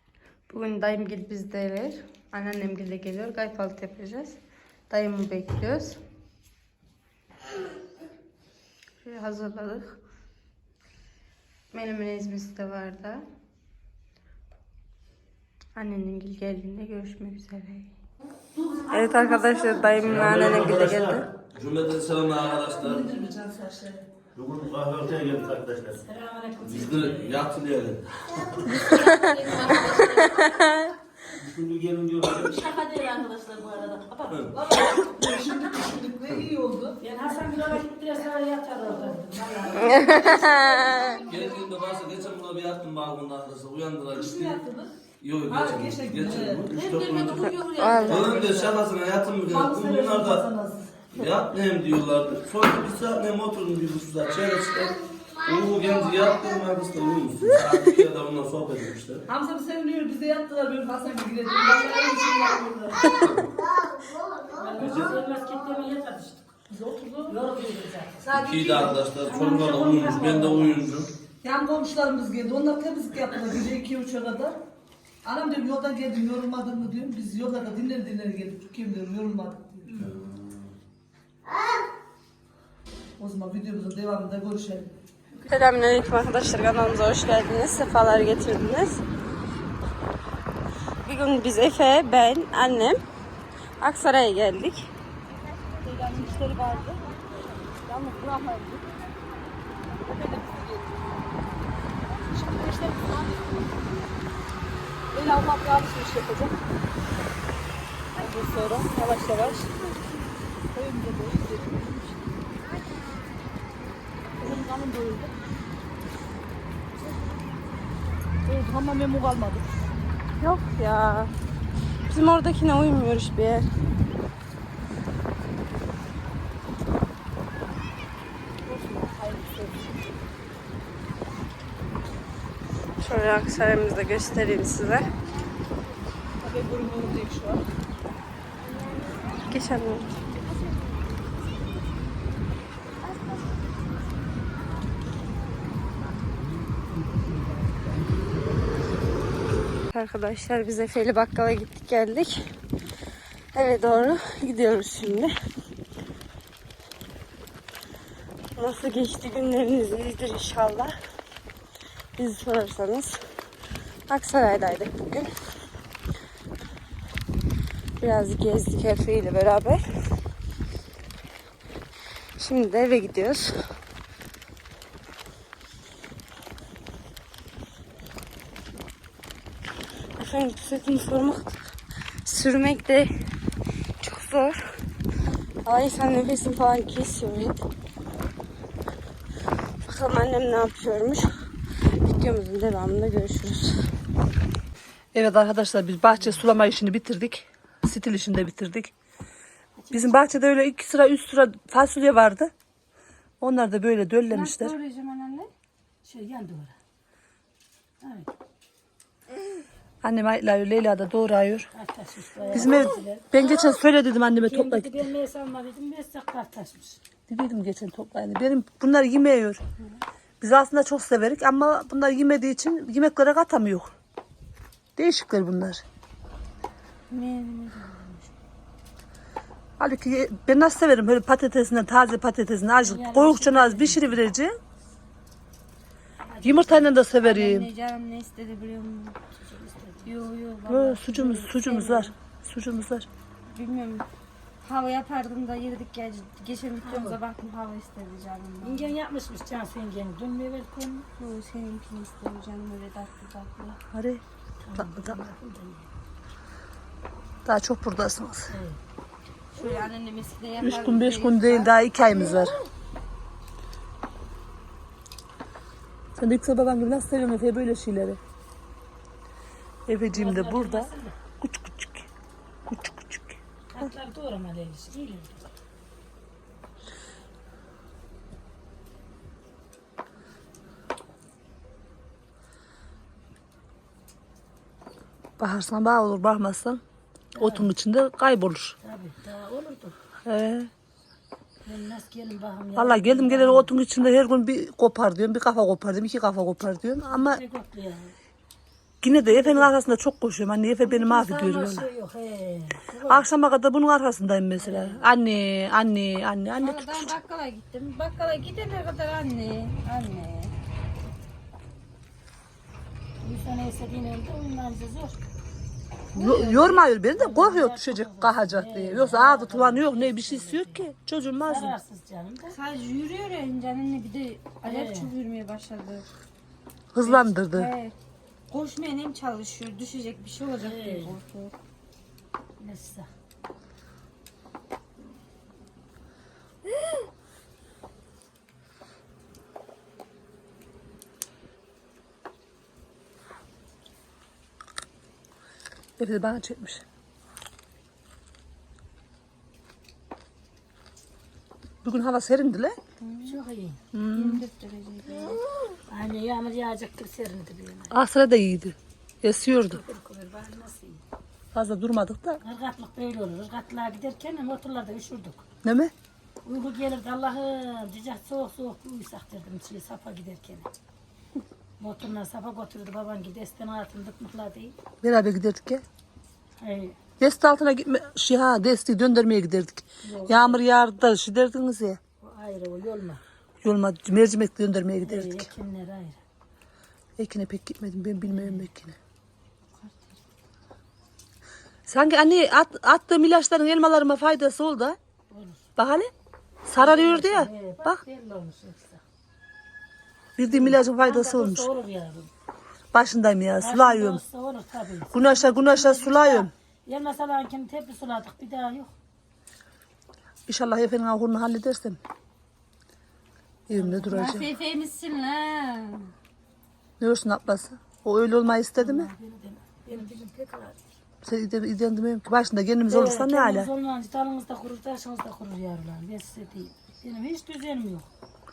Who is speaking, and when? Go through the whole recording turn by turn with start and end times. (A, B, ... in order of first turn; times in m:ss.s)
0:00.5-0:04.4 A
0:04.9-0:06.0 A
0:09.0-0:10.0 A
0:11.7-0:13.2 A
0:15.8-0:17.9 A
0:18.5-0:20.0 B
0:18.9-0:21.3 A
0:20.0-0:23.1 C
0:20.2-0:21.2 D
0:22.6-0:24.0 B
0:24.3-0:26.0 D
0:26.0-0:27.4 E
0:26.6-0:28.1 C
0:28.7-0:30.7 A
0:28.8-0:30.6 E
0:28.9-0:30.8 B
0:31.3-0:32.7 D
0:32.5-0:34.3 E
0:34.1-0:37.0 B
0:34.3-0:34.5 C
0:37.0-0:41.6 E
0:38.8-0:41.9 B
0:40.0-0:41.2 A
0:41.3-0:44.6 C
0:44.1-0:44.9 B
0:45.2-0:50.4 C
0:45.5-0:48.7 B
0:46.8-0:48.6 A
0:46.8-0:48.6 E
0:49.5-0:51.1 B
0:51.1-0:59.2 C
0:59.3-1:03.2 B
1:03.1-1:03.5 C
1:03.8-1:05.2 B
1:04.5-1:06.5 E
1:06.7-1:07.4 B
1:07.2-1:08.3 E
1:08.2-1:09.6 B
1:08.3-1:11.1 C
1:09.2-1:10.8 E
1:11.4-1:14.6 B
1:15.2-1:20.1 B
1:19.8-1:20.1 E
1:20.0-1:20.3 C
1:23.2-1:24.9 B
1:25.5-1:29.0 A
1:31.0-1:33.0 A
1:33.8-1:34.9 A
1:35.7-1:37.1 B
1:37.8-1:39.0 B
1:39.9-1:41.2 B
1:42.0-1:43.9 B
1:45.1-1:46.5 B
1:48.2-1:49.7 B
1:48.6-1:49.2 E
1:49.0-1:49.8 A
1:50.7-1:52.2 B
1:54.4-1:55.3 B
1:58.4-1:59.8 B
2:00.4-2:01.3 A
2:02.1-2:03.7 A
2:08.6-2:10.1 B
2:13.0-2:15.1 A
2:16.4-2:17.6 B
2:18.9-2:20.2 A
2:26.7-2:28.6 D
2:29.9-2:32.4 A
2:33.5-2:35.3 A
2:38.6-2:40.9 A
2:42.2-2:43.2 A
2:44.1-2:45.3 A
2:48.0-2:49.8 A
2:52.4-2:53.5 A
3:00.2-3:01.6 A
3:02.2-3:03.1 A
3:04.0-3:04.7 A
3:05.6-3:07.6 A
3:09.8-3:11.3 A
3:12.0-3:13.8 A
3:15.1-3:18.9 B
3:19.8-3:20.3 E
3:19.9-3:22.5 B
3:23.4-3:24.7 B
3:24.3-3:25.5 A
3:26.0-3:26.8 E
3:28.0-3:28.3 E
3:30.0-3:31.7 B
3:31.7-3:33.7 E
3:32.4-3:32.9 A
3:32.5-3:35.0 B
3:34.4-3:37.0 E
3:37.3-3:39.6 B
3:40.4-3:43.9 B
3:45.0-3:45.8 B
3:47.1-3:48.3 A
3:49.8-3:54.6 B
3:52.8-3:54.1 E
3:56.2-3:56.9 E
3:56.4-3:57.7 B
3:57.2-3:59.2 A
3:59.3-4:00.1 E
4:00.0-4:02.1 A
4:00.7-4:03.1 B
4:03.5-4:04.0 A
4:04.6-4:08.9 A
4:06.8-4:07.2 E
4:08.6-4:11.1 E
4:11.2-4:13.8 A
4:13.9-4:14.2 B
4:14.6-4:15.9 E
4:14.8-4:15.2 B
4:17.4-4:18.5 B
4:18.5-4:18.8 E
4:19.5-4:22.5 A
4:20.6-4:22.5 B
4:26.2-4:28.2 B
4:29.9-4:32.1 B
4:30.1-4:31.2 E
4:32.7-4:33.9 B
4:33.7-4:35.5 E
4:45.4-4:46.8 B
4:47.3-4:48.8 B
4:47.4-4:47.7 E
4:48.8-4:50.0 E
4:50.2-4:50.7 B
4:51.6-4:53.7 E
4:52.7-4:57.4 B
4:57.1-4:58.1 E
4:59.0-5:01.9 B
4:59.0-4:59.7 E
5:00.8-5:03.2 E
5:03.1-5:07.1 B
5:04.6-5:05.1 E
5:06.5-5:10.5 A
5:13.2-5:15.2 E
5:16.1-5:16.7 A
5:16.2-5:21.8 B
5:17.1-5:20.9 E
5:21.5-5:22.5 E
5:22.5-5:26.0 A
5:24.6-5:25.1 E
5:26.9-5:27.7 B
5:27.0-5:27.9 A
5:28.5-5:31.5 A
5:30.6-5:31.1 E
5:32.6-5:33.1 E
5:46.0-5:46.8 B
5:51.8-5:52.8 B
5:53.0-5:53.4 A
5:53.2-5:53.8 E
5:53.9-5:54.4 B
5:54.1-5:55.4 A
5:55.9-5:58.0 E
5:57.9-5:59.8 B
5:59.7-6:01.0 E
6:01.5-6:02.4 B
6:02.4-6:05.4 E
6:05.6-6:05.9 B
6:06.4-6:10.7 E
6:11.8-6:14.8 E
6:15.0-6:15.8 B
6:16.6-6:17.0 E
6:17.2-6:22.0 B
6:20.0-6:20.6 E
6:22.2-6:23.2 E
6:23.6-6:25.5 B
6:25.0-6:26.2 E
6:27.2-6:29.0 B
6:28.4-6:28.6 E
6:29.8-6:30.1 A
6:31.9-6:35.0 B
6:35.3-6:35.7 E
6:35.8-6:36.1 B
6:36.6-6:38.0 B
6:36.8-6:39.0 E
6:40.4-6:41.7 B
6:40.5-6:42.3 E
6:42.9-6:44.2 B
6:43.6-6:48.9 E
6:45.1-6:46.5 B
6:50.5-6:52.0 B
6:53.7-6:54.5 B
6:53.7-6:54.5 E
6:54.1-6:56.1 A
6:57.0-6:59.1 B
6:58.8-7:00.7 E
7:01.2-7:03.7 B
7:02.9-7:08.1 E